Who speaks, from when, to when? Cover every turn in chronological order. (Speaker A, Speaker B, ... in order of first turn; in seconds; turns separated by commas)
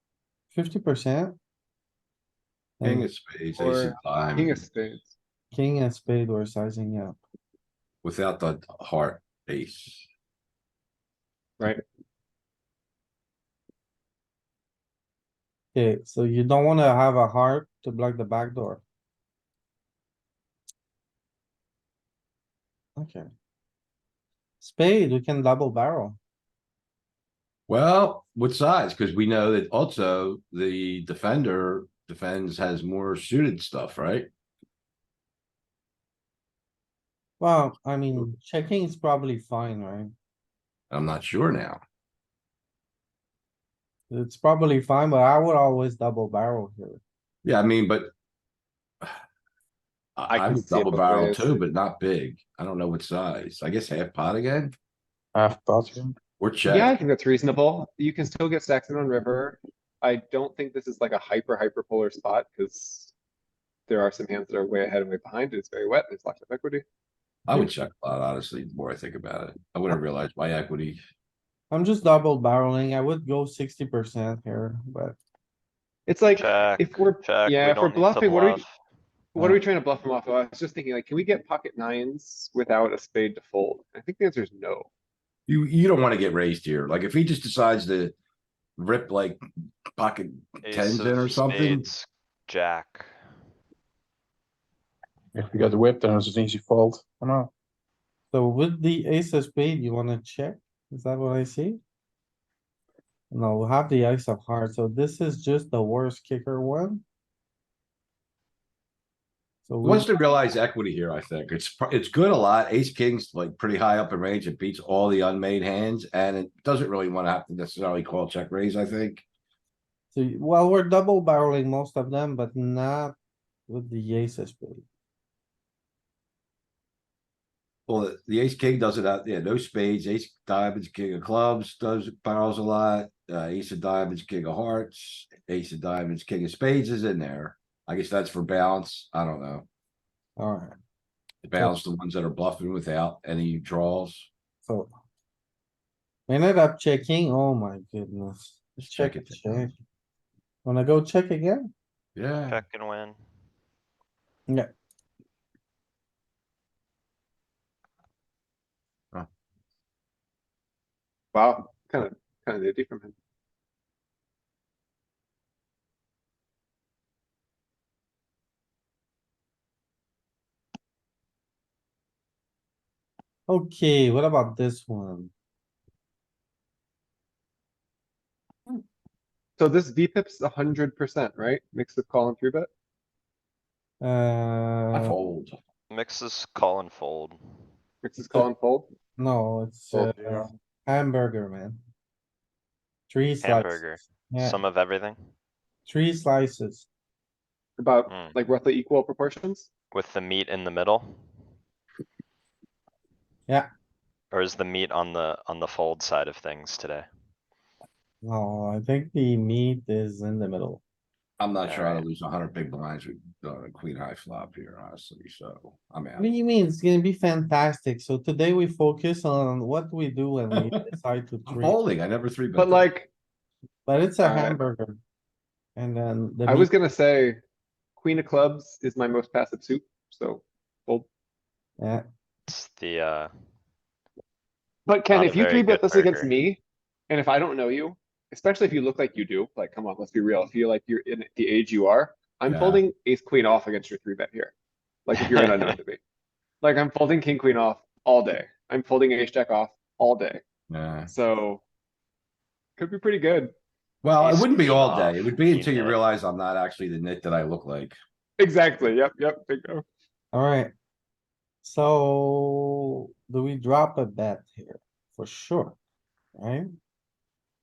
Speaker A: 0.5-1.4, Speaker A: 2.8-3.1, Speaker B: 2.8-4.6, Speaker C: 3.6-5.1, Speaker A: 5.5-7.2, Speaker B: 8.0-10.1, Speaker A: 15.7-18.8, Speaker A: 23.0-23.3, Speaker A: 24.6-26.2, Speaker B: 27.7-34.3, Speaker A: 37.4-40.1, Speaker B: 40.9-41.8, Speaker A: 44.1-47.0, Speaker B: 47.4-48.1, Speaker B: 50.2-54.8, Speaker C: 50.3-51.6, Speaker D: 55.4-56.2, Speaker B: 56.4-57.0, Speaker C: 56.7-63.1, Speaker C: 63.9-66.8, Speaker B: 67.5-71.0, Speaker A: 71.7-75.2, Speaker C: 76.1-78.6, Speaker E: 76.3-78.7, Speaker C: 79.3-84.9, Speaker B: 85.5-88.1, Speaker B: 88.8-89.4, Speaker B: 90.0-91.9, Speaker E: 90.6-93.1, Speaker D: 95.3-97.5, Speaker A: 98.3-101.8, Speaker A: 103.3-107.0, Speaker A: 109.7-110.1, Speaker B: 109.8-119.2, Speaker A: 120.1-123.2, Speaker A: 123.7-124.8, Speaker B: 127.9-139.7, Speaker A: 140.4-140.8, Speaker B: 141.4-144.3, Speaker A: 144.7-144.9, Speaker A: 146.3-149.8, Speaker B: 148.8-149.7, Speaker A: 150.7-151.7, Speaker B: 152.2-152.6, Speaker E: 152.5-153.2, Speaker C: 161.3-163.1, Speaker A: 173.5-175.3, Speaker C: 179.6-182.7, Speaker A: 184.0-185.2, Speaker B: 184.9-185.6, Speaker E: 185.9-187.4, Speaker C: 188.0-188.9, Speaker A: 189.2-191.8, Speaker D: 189.9-190.5, Speaker A: 193.1-194.6, Speaker E: 193.4-195.2, Speaker A: 195.9-196.9, Speaker C: 197.8-199.7, Speaker E: 198.1-198.4, Speaker E: 199.9-201.2, Speaker E: 204.3-207.1, Speaker A: 208.2-210.8, Speaker B: 211.4-216.3, Speaker E: 211.6-212.1, Speaker A: 216.2-221.8, Speaker B: 220.5-220.9, Speaker B: 221.5-222.9, Speaker C: 222.6-223.1, Speaker A: 223.9-225.0, Speaker C: 224.2-224.6, Speaker A: 225.8-226.7, Speaker C: 226.5-227.4, Speaker C: 228.0-231.1, Speaker A: 231.8-232.0, Speaker E: 232.5-233.3, Speaker C: 234.9-244.5, Speaker E: 235.1-236.3, Speaker B: 242.5-242.8, Speaker C: 245.1-246.0, Speaker E: 245.2-245.8, Speaker C: 246.6-250.4, Speaker B: 250.7-251.1, Speaker C: 251.1-251.6, Speaker C: 252.8-253.5, Speaker B: 254.0-258.0, Speaker E: 254.2-256.0, Speaker C: 258.4-259.8, Speaker A: 260.3-260.7, Speaker A: 261.6-265.8, Speaker A: 266.4-266.7